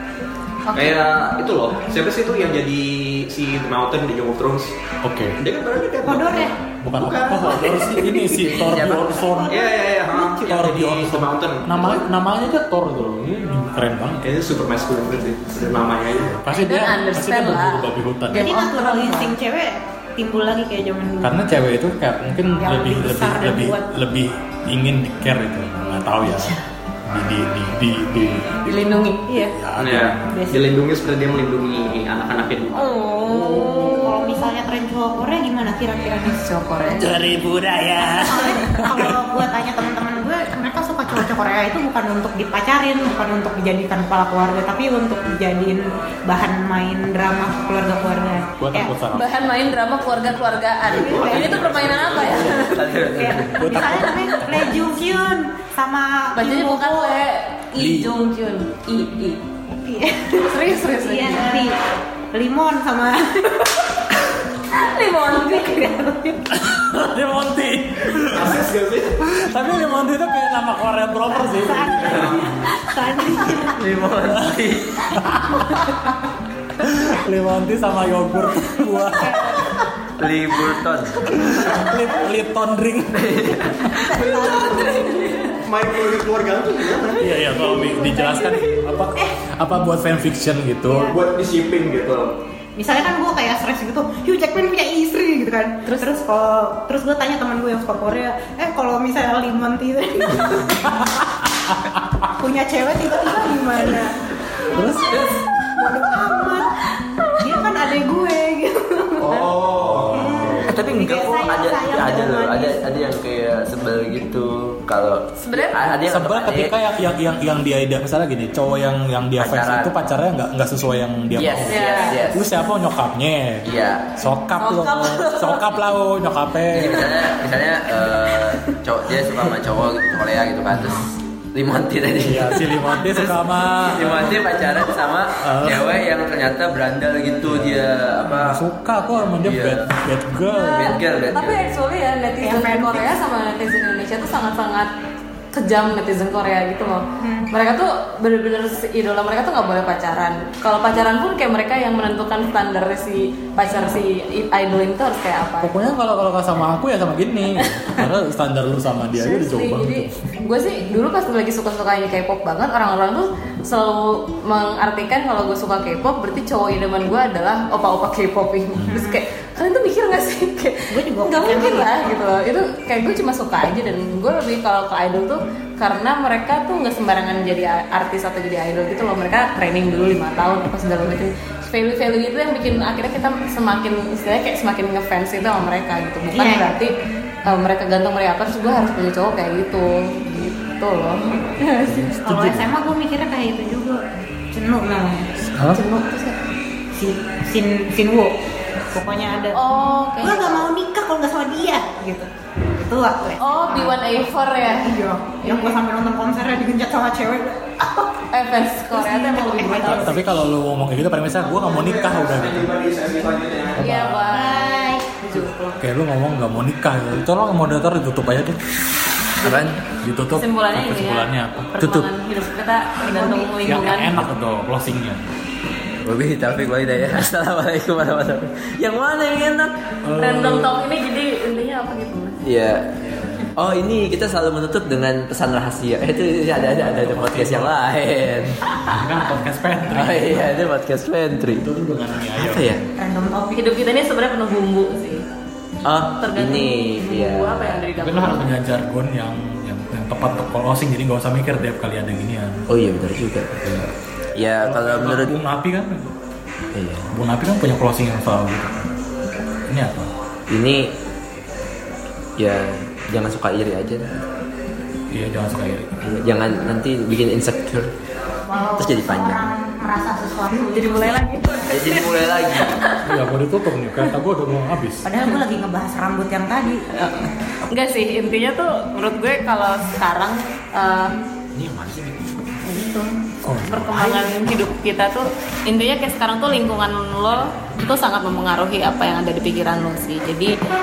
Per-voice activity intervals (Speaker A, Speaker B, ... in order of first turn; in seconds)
Speaker A: 0.7-1.0, 16.5-19.4, 28.6-29.5, 32.7-34.3, 36.3-37.2, 49.1-52.8, 56.4-59.4, 60.5-61.6, 64.7-66.0, 81.4-81.9, 84.0-85.6, 87.1-88.8, 107.2-107.5, 115.4-115.9, 121.7-122.3, 124.6-125.7, 140.5-144.9, 145.5-155.8, 157.6-158.1, 159.2-186.9, 187.5-192.1, 195.7-196.4, 199.5-200.7, 203.4-205.8, 208.2-210.2, 213.8-215.8, 220.3-224.2, 230.2-232.4, 243.5-245.2, 246.2-248.5, 270.5-273.1, 276.9-281.1, 282.7-283.1, 283.7-290.6
Speaker B: 0.7-4.7, 5.4-8.4, 9.5-11.9, 14.2-16.4, 29.8-33.7, 50.9-52.7, 68.2-69.2, 72.2-72.6, 85.6-87.2, 91.1-92.3, 109.2-110.7, 211.4-213.8
Speaker C: 5.0-5.4, 6.8-9.7, 10.5-14.3, 16.2-18.5, 21.2-28.9, 29.5-30.2, 37.0-39.2, 48.6-49.4, 53.6-54.5, 57.8-58.2, 66.5-72.4, 74.3-74.6, 75.1-76.2, 76.8-79.6, 81.3-83.5, 87.1-91.2, 100.7-102.3, 104.7-105.4, 109.6-110.8, 115.9-127.1, 130.7-131.0, 132.2-134.5, 135.3-135.9, 137.5-141.0, 155.6-160.1, 191.8-192.8, 195.4-195.8, 209.9-212.7, 213.8-214.6, 215.4-218.6, 219.8-222.1, 223.6-225.3, 230.0-230.8, 233.1-233.4, 236.7-237.8, 238.9-240.6, 241.5-242.8, 248.0-252.7, 253.5-253.9, 254.6-256.1, 257.1-258.9, 259.7-260.1, 265.1-266.4, 273.0-275.1, 283.4-284.3
Speaker D: 6.0-6.5, 9.2-10.6, 18.3-21.5, 22.6-23.9, 30.3-30.8, 33.4-36.4, 38.1-48.9, 51.0-51.6, 53.1-57.2, 59.9-61.8, 62.3-63.8, 65.0-66.5, 71.4-73.8, 79.3-79.8, 84.0-85.2, 92.8-101.0, 102.3-104.2, 105.8-106.7, 107.4-112.8, 142.4-143.2, 147.2-147.5, 168.9-169.2, 170.9-172.1, 186.3-186.8, 192.2-194.0, 194.5-195.3, 196.9-198.3, 198.9-199.6, 200.2-208.1, 208.9-210.4, 214.3-215.2, 223.1-223.6, 243.0-243.6, 268.5-271.2, 275.0-276.9
Speaker E: 8.4-9.2, 51.6-54.0, 73.8-75.1, 80.2-81.8, 83.1-84.1, 110.7-116.7, 119.4-119.9, 121.3-122.5, 123.7-124.1, 126.7-138.6, 139.4-139.9, 140.7-141.6, 219.4-219.8, 226.0-229.9, 232.4-238.6, 239.9-241.6, 242.4-242.9, 245.8-247.8, 252.7-253.7, 254.4-255.3, 256.7-257.1, 260.5-260.9, 262.4-264.2, 266.2-267.9, 268.8-269.5, 271.7-272.8, 281.5-282.5